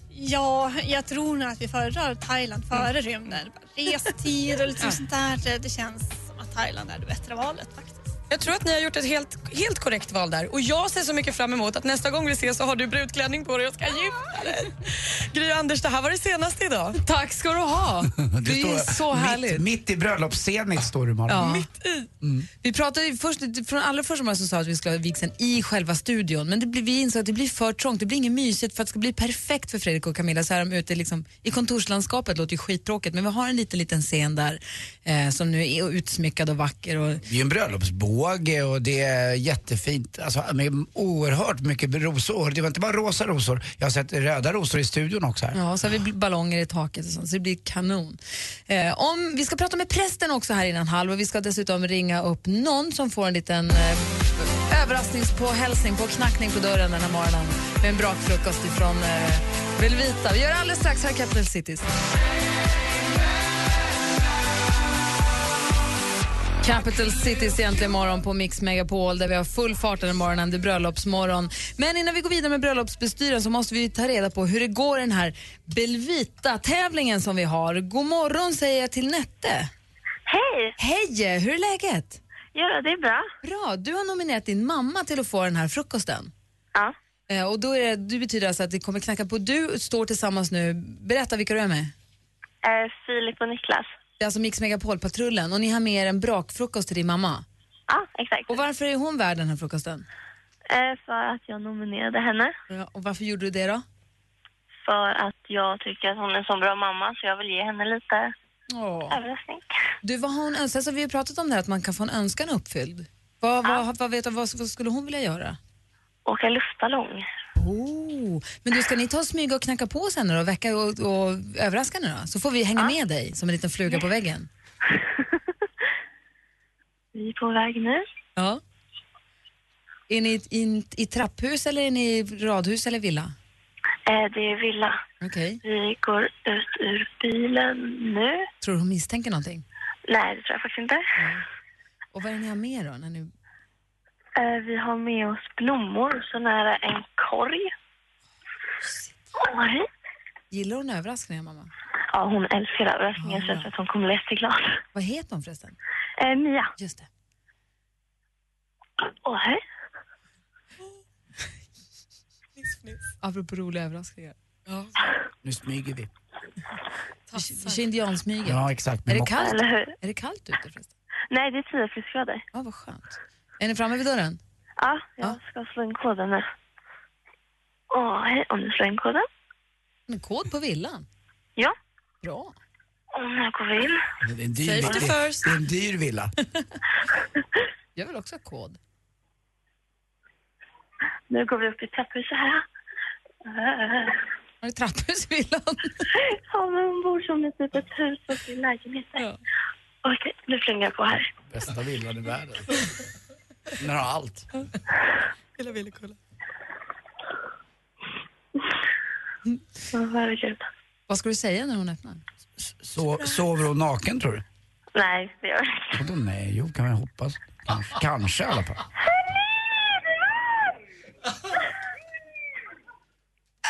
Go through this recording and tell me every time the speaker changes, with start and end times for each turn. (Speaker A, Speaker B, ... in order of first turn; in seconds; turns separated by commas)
Speaker A: 0.1-8.2, Speaker B: 8.3-17.0, Speaker C: 17.0-19.6, Speaker D: 18.2-21.5, Speaker C: 21.3-21.7, Speaker B: 21.4-22.1, Speaker D: 22.2-22.5, Speaker C: 22.6-37.2, Speaker D: 37.2-45.6, Speaker C: 45.5-61.9, Speaker C: 66.6-79.7, Speaker E: 80.3-80.8, Speaker C: 80.8-82.2, Speaker E: 82.5-83.3, Speaker C: 83.4-86.3, Speaker C: 87.3-91.9, Speaker E: 92.6-93.9, Speaker C: 94.2-97.5, Speaker E: 97.9-98.6, Speaker C: 98.5-100.1, Speaker E: 100.7-102.5, Speaker C: 102.7-103.8, Speaker E: 104.8-108.3, Speaker C: 108.7-109.2, Speaker E: 109.1-109.7, Speaker C: 110.0-115.6, Speaker E: 116.3-117.3, Speaker C: 117.6-124.5, Speaker E: 127.1-128.0, Speaker C: 128.4-128.6, Speaker C: 130.1-133.3, Speaker E: 134.1-135.0, Speaker C: 135.2-135.6, Speaker E: 135.6-138.5, Speaker C: 138.6-139.7, Speaker E: 140.1-141.1, Speaker C: 141.2-141.4, Speaker C: 142.1-143.3, Speaker E: 144.4-147.7, Speaker C: 148.8-149.2, Speaker E: 149.4-149.9, Speaker C: 150.5-151.7, Speaker E: 152.1-154.8, Speaker C: 153.2-153.7, Speaker C: 154.9-155.8, Speaker E: 156.2-156.7, Speaker C: 156.8-157.1, Speaker E: 159.1-159.6, Speaker C: 163.2-164.4, Speaker D: 165.4-166.1, Speaker B: 167.3-167.8, Speaker C: 167.3-170.9, Speaker D: 168.4-169.4, Speaker E: 169.3-169.9, Speaker E: 171.3-172.4, Speaker C: 172.5-174.4, Speaker E: 174.8-176.5, Speaker E: 177.9-179.3, Speaker C: 180.1-181.1, Speaker C: 182.2-182.6, Speaker E: 183.1-184.0, Speaker D: 184.2-186.3, Speaker B: 184.6-185.5, Speaker C: 188.0-188.8, Speaker E: 191.3-192.7, Speaker E: 193.4-194.2, Speaker C: 194.6-196.1, Speaker E: 196.2-199.3, Speaker E: 200.0-201.3, Speaker D: 201.5-202.8, Speaker D: 203.8-204.5, Speaker B: 205.6-206.2, Speaker E: 209.9-210.7, Speaker C: 211.1-212.2, Speaker D: 212.8-214.4, Speaker E: 214.9-216.0, Speaker D: 215.9-218.8